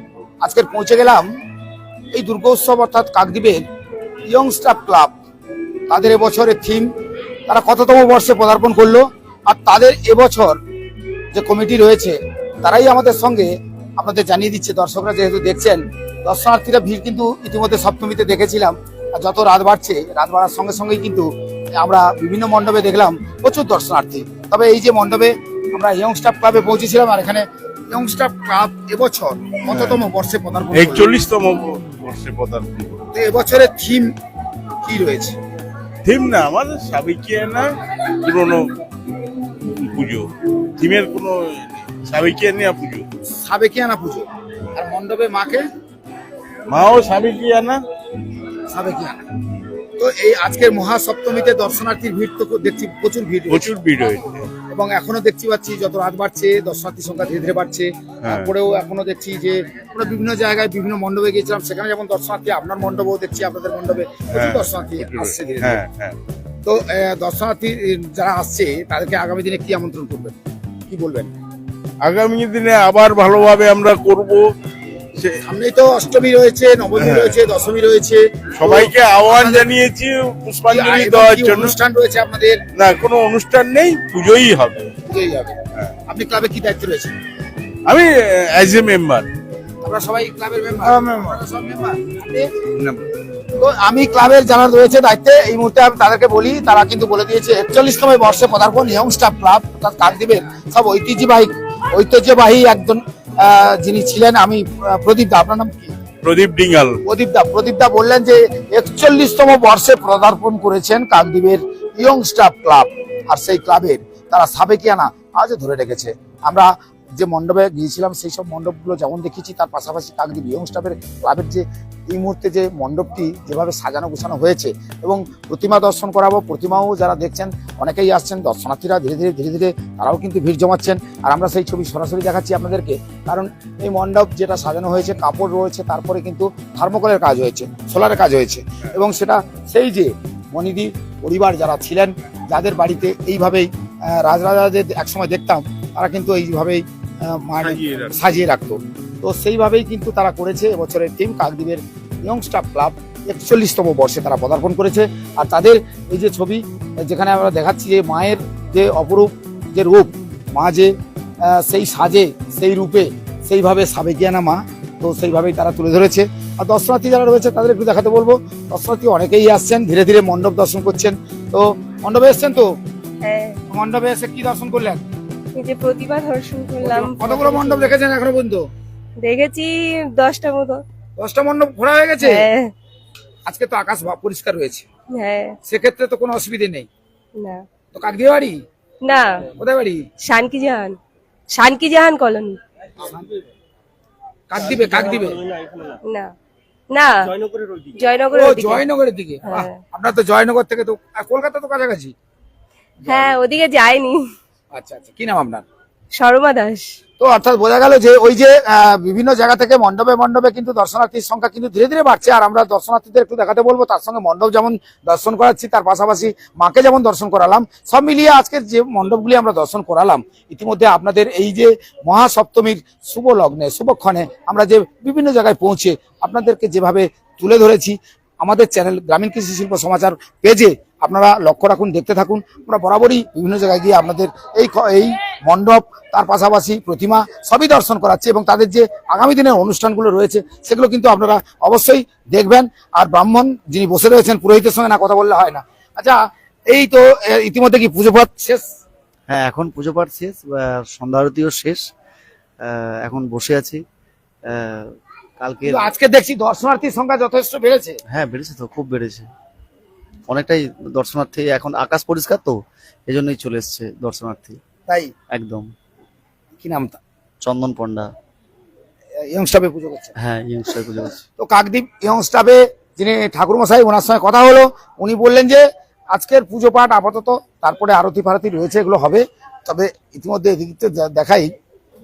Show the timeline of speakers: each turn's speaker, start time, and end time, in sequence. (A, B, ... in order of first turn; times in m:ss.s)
0:00.4-0:01.3 A
0:02.1-0:03.6 A
0:04.2-0:05.1 A
0:05.9-0:06.9 A
0:07.5-0:10.6 A
0:11.3-0:21.3 A
0:21.8-0:31.2 A
0:29.7-0:30.0 B
0:30.7-0:33.0 B
0:33.1-0:34.1 A
0:34.8-0:35.4 A
0:36.0-0:37.7 B
0:38.2-0:38.7 B
0:39.6-0:41.5 B
0:42.0-0:43.0 B
0:43.4-0:45.6 A
0:46.7-0:47.8 B
0:48.7-0:49.2 A
0:50.0-0:53.7 A
0:53.5-0:54.4 B
0:54.7-1:05.8 A
0:58.2-0:58.5 B
1:04.3-1:06.2 B
1:06.6-1:10.4 A
1:10.9-1:11.3 A
1:12.0-1:14.4 B
1:15.4-1:19.7 A
1:17.0-1:17.4 B
1:18.6-1:21.7 B
1:20.7-1:22.6 A
1:22.7-1:24.9 B
1:25.1-1:27.1 A
1:27.8-1:29.3 B
1:29.8-1:32.9 A
1:33.6-1:45.9 A
1:46.2-1:47.0 B
1:47.0-2:40.9 A
2:27.6-2:28.1 B
2:41.4-2:52.7 A
2:53.2-2:53.6 C
2:53.7-2:55.0 A
2:55.6-2:57.9 C
2:56.8-2:58.7 A
2:59.2-3:00.8 C
3:01.2-3:02.4 A
3:02.2-3:02.7 C
3:03.4-3:04.8 A
3:05.2-3:05.6 C
3:05.6-3:06.9 A
3:07.4-3:07.6 C
3:07.9-3:08.6 A
3:09.0-3:09.4 C
3:09.5-3:10.0 A
3:10.2-3:11.0 C
3:11.5-3:12.6 C
3:13.0-3:13.3 A
3:14.5-3:15.4 A
3:16.0-3:16.3 C
3:16.9-3:17.3 C
3:17.9-3:18.8 C
3:18.3-3:22.1 A
3:19.5-3:19.8 C
3:23.0-3:24.2 C
3:23.1-3:23.3 A
3:24.7-3:25.6 A
3:26.1-3:27.0 C
3:27.2-4:06.2 A
4:06.7-4:08.6 A
4:09.3-4:11.8 D
4:12.6-4:13.8 D
4:14.5-4:15.9 D
4:15.6-4:18.0 A
4:18.1-4:19.3 D
4:20.3-4:24.6 D
4:25.3-4:25.7 D
4:26.6-4:27.0 A
4:27.4-4:28.1 D
4:29.2-4:30.1 A
4:30.2-4:31.2 D
4:31.4-4:41.5 A